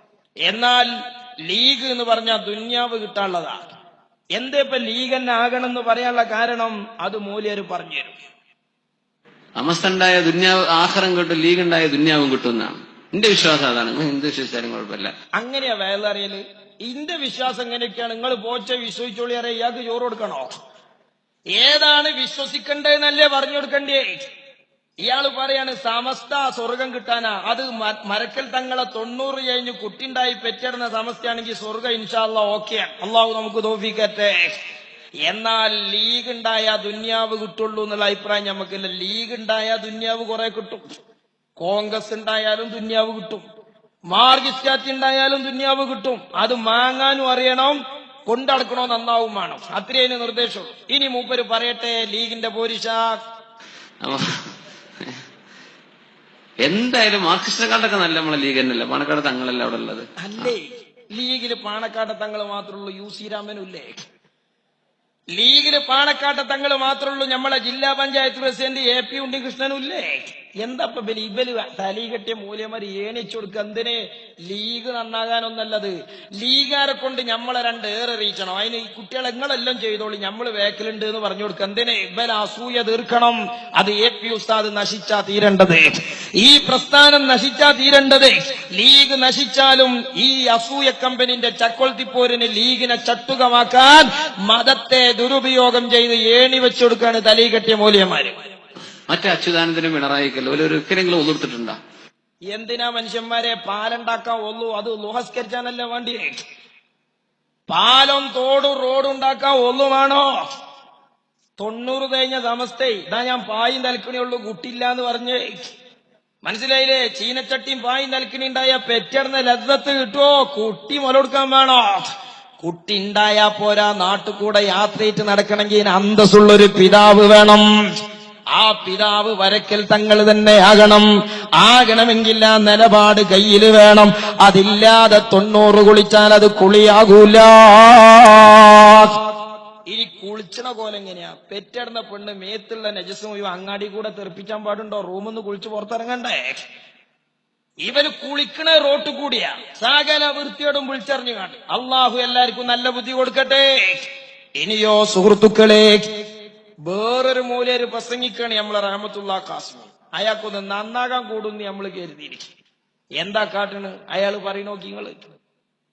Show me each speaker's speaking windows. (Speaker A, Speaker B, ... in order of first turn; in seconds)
Speaker A: 0.5-0.9, 1.4-3.6, 4.3-8.2, 15.4-20.5, 21.6-24.2, 25.0-34.5, 35.3-40.8, 41.6-43.4, 44.1-53.2, 60.2-63.9, 65.3-85.8, 86.4-98.4, 102.5-106.3, 107.7-110.4, 111.6-115.6, 116.5-121.9, 122.6-127.7, 128.5-139.2, 139.9-146.6, 147.8-156.1, 156.8-162.5, 163.2-165.2
Speaker B: 9.6-15.1, 54.0-54.4, 56.6-60.5, 99.1-101.8